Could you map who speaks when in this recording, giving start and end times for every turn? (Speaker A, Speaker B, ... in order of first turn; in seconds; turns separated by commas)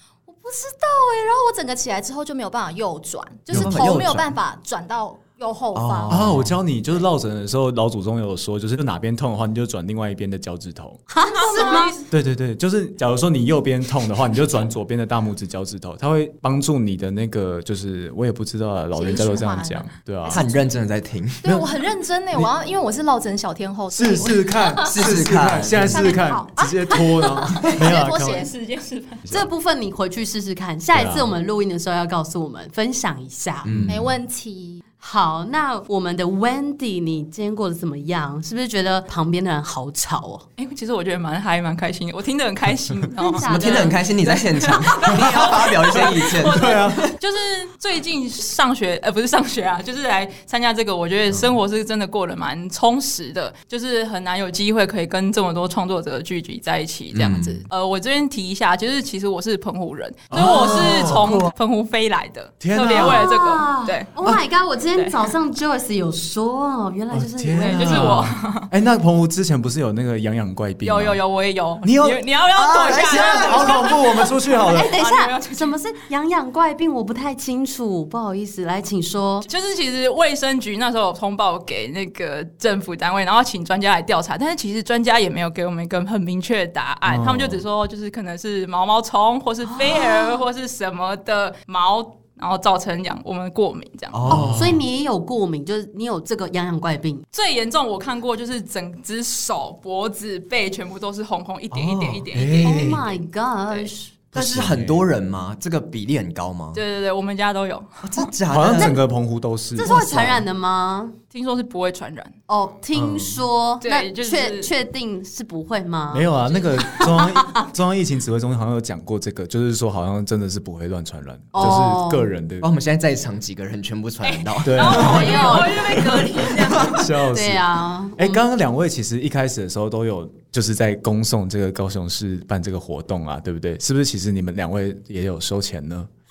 Speaker A: 0.3-6.4, Speaker B: 3.5-3.8, Speaker C: 3.5-4.3, Speaker C: 5.7-6.6, Speaker B: 6.1-11.0, Speaker D: 11.1-11.9, Speaker E: 11.2-12.0, Speaker A: 11.6-11.8, Speaker B: 12.1-20.4, Speaker A: 18.9-20.6, Speaker C: 20.3-21.7, Speaker A: 21.4-25.0, Speaker B: 23.9-28.5, Speaker C: 24.8-26.1, Speaker A: 25.7-28.5, Speaker E: 27.8-29.3, Speaker D: 29.3-33.7, Speaker B: 30.9-31.3, Speaker C: 33.6-34.0, Speaker B: 33.7-34.1, Speaker A: 33.9-34.8, Speaker D: 35.0-40.5, Speaker E: 40.6-64.1, Speaker D: 43.2-44.3, Speaker C: 43.4-46.8, Speaker D: 45.0-45.7, Speaker B: 46.5-47.1, Speaker C: 57.1-57.6, Speaker B: 60.3-61.4, Speaker C: 60.3-61.5, Speaker B: 62.6-63.2, Speaker D: 62.9-68.1, Speaker E: 64.9-65.3, Speaker B: 67.1-71.2, Speaker E: 67.6-68.7, Speaker E: 70.8-75.8, Speaker B: 71.8-74.9, Speaker C: 72.5-73.9, Speaker D: 74.7-79.5, Speaker E: 79.5-94.3, Speaker B: 87.0-87.6, Speaker D: 89.7-90.3, Speaker C: 94.1-94.8, Speaker B: 94.3-94.8, Speaker D: 94.3-97.2, Speaker E: 97.3-103.9, Speaker C: 101.7-102.3, Speaker B: 102.3-103.0, Speaker D: 102.6-104.1, Speaker B: 104.3-105.0, Speaker C: 104.3-106.8, Speaker E: 106.7-108.3, Speaker C: 108.0-109.0, Speaker B: 108.5-110.0, Speaker D: 109.8-111.2, Speaker C: 109.8-110.4, Speaker E: 111.3-112.3, Speaker D: 112.5-117.7, Speaker C: 112.9-113.4, Speaker E: 113.8-114.7, Speaker B: 116.1-122.7, Speaker D: 121.5-122.3, Speaker C: 121.6-121.8, Speaker C: 122.6-125.5, Speaker E: 124.2-126.9, Speaker B: 124.6-125.7, Speaker D: 124.8-128.4, Speaker B: 126.4-136.1, Speaker C: 126.5-127.0